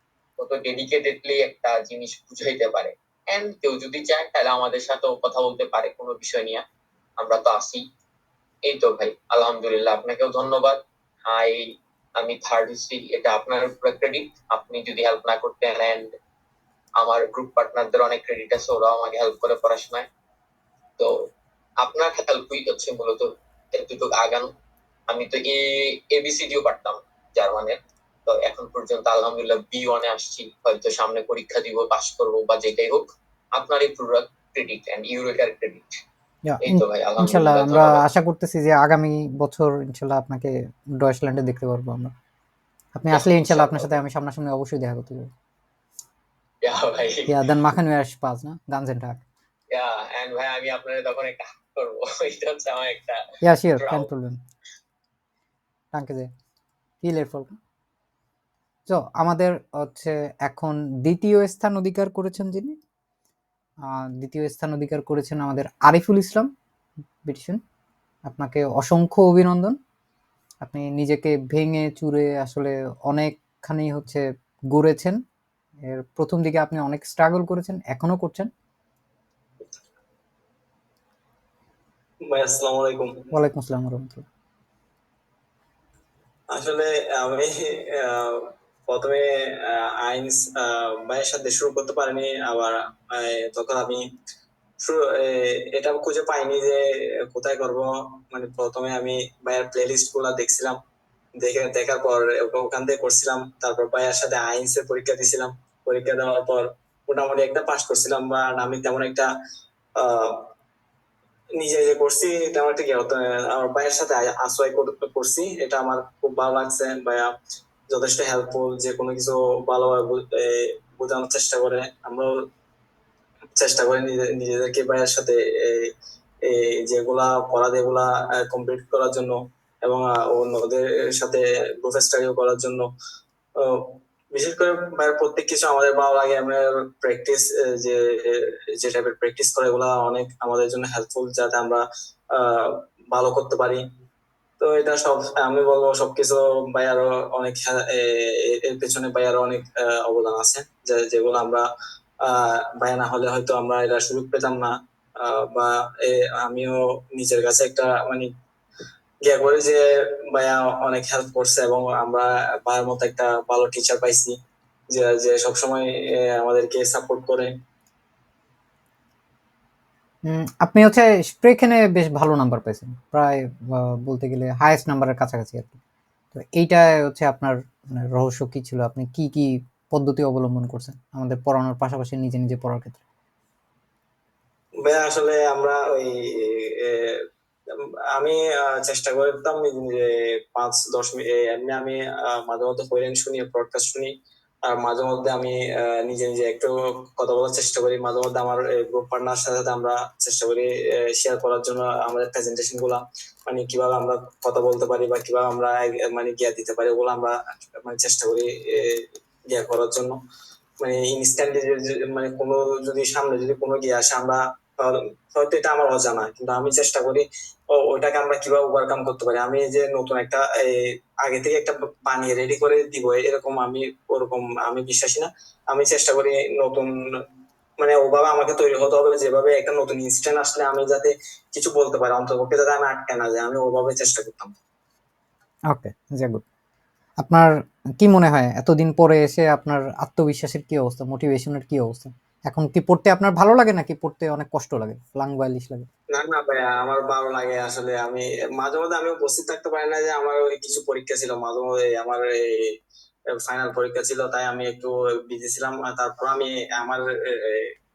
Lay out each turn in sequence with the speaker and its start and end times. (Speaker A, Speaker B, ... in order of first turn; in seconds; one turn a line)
Speaker A: 0.4-6.6
Speaker A: 7.2-7.8
Speaker A: 8.7-16.1
Speaker A: 17.0-20.1
Speaker A: 21.8-24.5
Speaker A: 25.1-35.9
Speaker B: 36.5-42.1
Speaker A: 36.6-38.0
Speaker B: 43.0-45.3
Speaker A: 43.1-43.9
Speaker A: 46.6-47.3
Speaker B: 47.3-49.2
Speaker A: 49.7-53.2
Speaker B: 53.4-54.4
Speaker A: 53.8-54.1
Speaker B: 55.9-56.3
Speaker B: 57.0-57.6
Speaker B: 58.9-62.7
Speaker B: 63.9-66.5
Speaker B: 67.2-67.6
Speaker B: 68.2-69.8
Speaker B: 70.6-75.2
Speaker B: 75.8-78.5
Speaker C: 82.3-83.2
Speaker B: 83.3-84.2
Speaker C: 86.5-94.0
Speaker C: 94.8-100.8
Speaker C: 101.4-109.3
Speaker C: 110.0-110.5
Speaker C: 111.6-117.3
Speaker C: 117.9-122.3
Speaker C: 123.6-125.9
Speaker C: 126.4-132.9
Speaker C: 133.6-143.8
Speaker C: 144.6-151.6
Speaker C: 152.2-158.3
Speaker C: 159.2-164.4
Speaker C: 164.9-167.5
Speaker B: 170.2-175.8
Speaker B: 176.3-183.0
Speaker C: 184.8-187.2
Speaker C: 188.1-194.1
Speaker C: 194.7-210.2
Speaker C: 210.8-226.9
Speaker C: 227.8-234.5
Speaker B: 235.7-236.4
Speaker B: 237.2-245.9
Speaker C: 246.1-252.7
Speaker C: 253.3-257.7